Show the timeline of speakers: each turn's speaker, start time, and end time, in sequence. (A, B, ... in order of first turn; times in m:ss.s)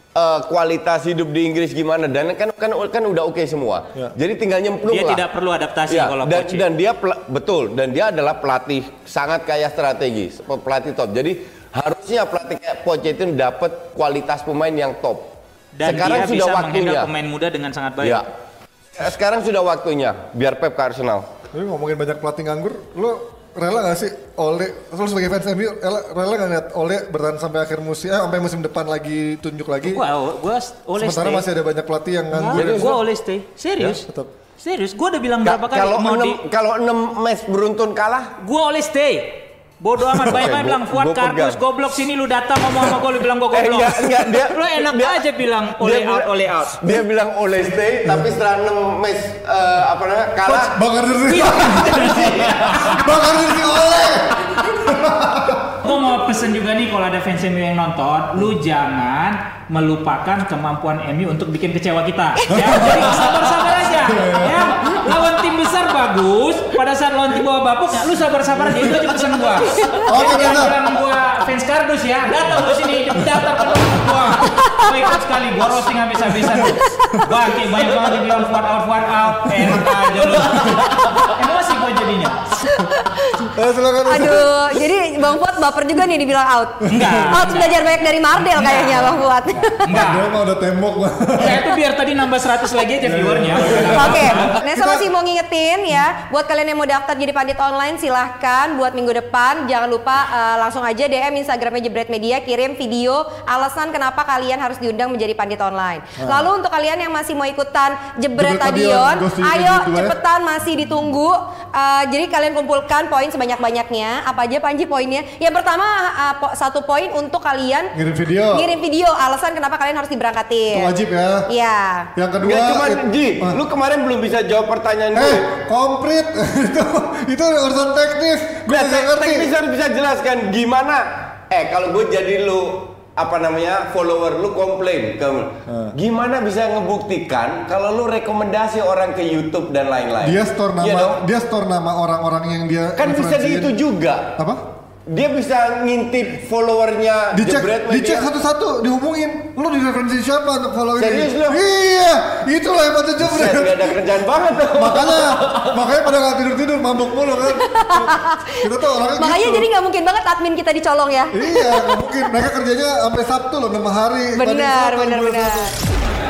0:00.1-0:05.2 A
0:04.8-0:06.6 B
0:05.9-0:17.1 A
0:15.7-0:18.2 B
0:19.0-0:21.3 A
0:21.5-0:30.0 C
0:29.8-0:31.4 B
0:31.0-0:33.0 C
0:32.3-0:34.0 B
0:32.5-0:33.0 A
0:33.9-0:34.3 C
0:34.6-0:36.4 B
0:35.4-0:38.4 A
0:38.4-0:46.9 B
0:40.1-0:41.6 A
0:43.5-0:50.8 A
0:50.4-0:55.8 C
0:51.2-0:53.1 B
0:51.4-0:53.0 A
0:55.8-1:22.5 B
1:02.5-1:05.2 C
1:10.0-1:10.8 C
1:13.2-1:14.2 C
1:14.8-1:15.1 D
1:16.5-1:17.2 C
1:16.6-1:17.2 D
1:19.6-1:21.0 C
1:20.9-1:21.2 D
1:22.6-1:23.4 D
1:23.4-1:24.8 C
1:24.0-1:30.0 D
1:26.8-1:27.4 C
1:26.9-1:30.3 B
1:29.9-1:31.8 C
1:31.4-1:34.6 B
1:33.0-1:35.1 C
1:33.8-1:57.9 D
1:46.2-1:46.5 C
1:48.4-1:50.2 C
1:57.9-1:58.8 C
1:58.5-2:00.9 D
2:00.7-2:01.5 C
2:01.5-2:02.1 D
2:02.1-2:03.6 C
2:02.4-2:05.4 A
2:05.1-2:09.5 C
2:08.7-2:21.2 A
2:15.7-2:15.9 C
2:20.2-2:23.7 C
2:23.0-2:24.3 A
2:24.4-2:24.6 C
2:25.1-2:28.3 A
2:27.3-2:39.7 C
2:31.0-2:31.6 A
2:33.2-2:35.8 A
2:37.4-2:42.3 D
2:41.3-2:45.8 C
2:44.3-2:45.7 D